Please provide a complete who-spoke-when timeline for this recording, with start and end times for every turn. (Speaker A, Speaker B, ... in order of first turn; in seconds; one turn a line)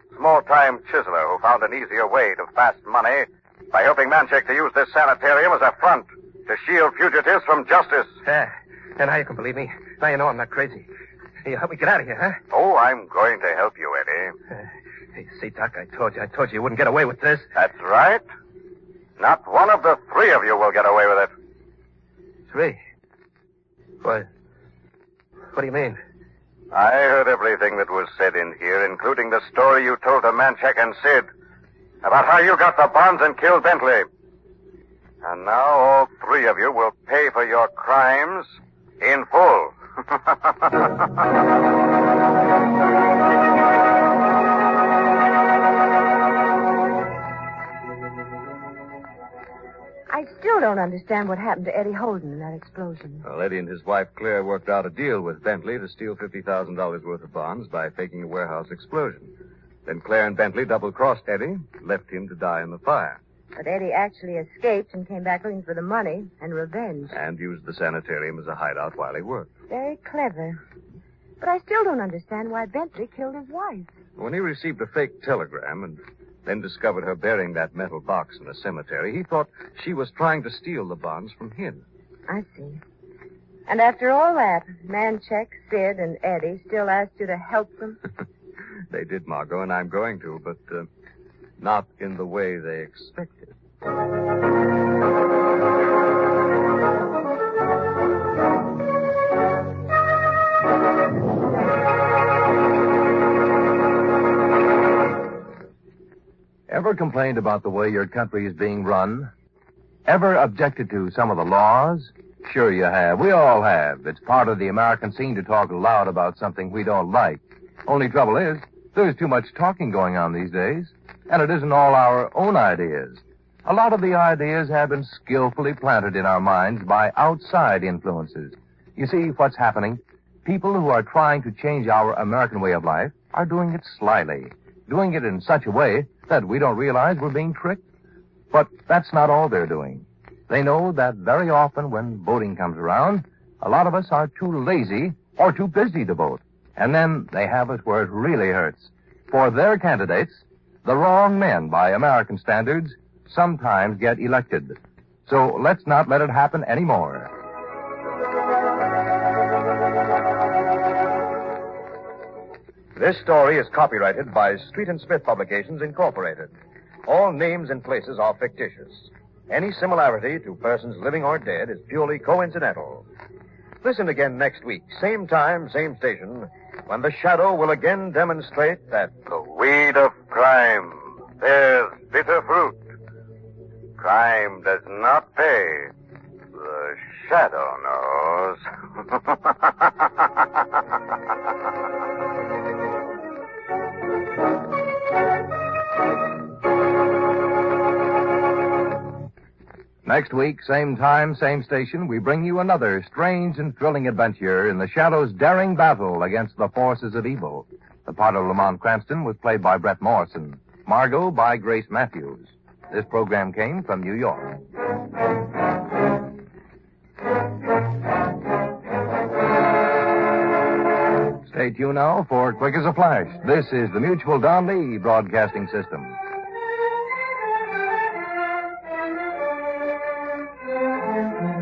Speaker A: 0.1-8.1
Speaker B: 8.2-10.9
Speaker B: 11.4-12.4
Speaker A: 12.5-14.3
Speaker B: 15.2-17.5
Speaker A: 17.5-18.2
Speaker A: 19.2-21.3
Speaker B: 22.5-22.8
Speaker B: 24.0-24.3
Speaker B: 25.5-26.0
Speaker A: 26.7-31.2
Speaker A: 32.0-34.0
Speaker A: 35.2-38.5
Speaker A: 39.0-39.7
Speaker C: 50.1-53.2
Speaker D: 53.2-59.3
Speaker D: 59.9-63.2
Speaker C: 63.5-67.2
Speaker D: 67.1-69.5
Speaker C: 69.7-70.6
Speaker C: 71.4-73.9
Speaker D: 74.2-81.8
Speaker C: 82.3-82.8
Speaker C: 83.7-88.0
Speaker D: 88.9-90.9
Speaker D: 91.6-93.5
Speaker E: 106.7-109.3
Speaker E: 110.0-137.8
Speaker E: 138.5-154.8
Speaker E: 155.3-157.3
Speaker F: 162.9-166.5
Speaker F: 167.1-173.1
Speaker F: 173.8-179.2
Speaker A: 179.2-182.9
Speaker A: 184.0-185.9
Speaker A: 186.5-188.6
Speaker E: 200.0-214.6
Speaker E: 221.5-226.2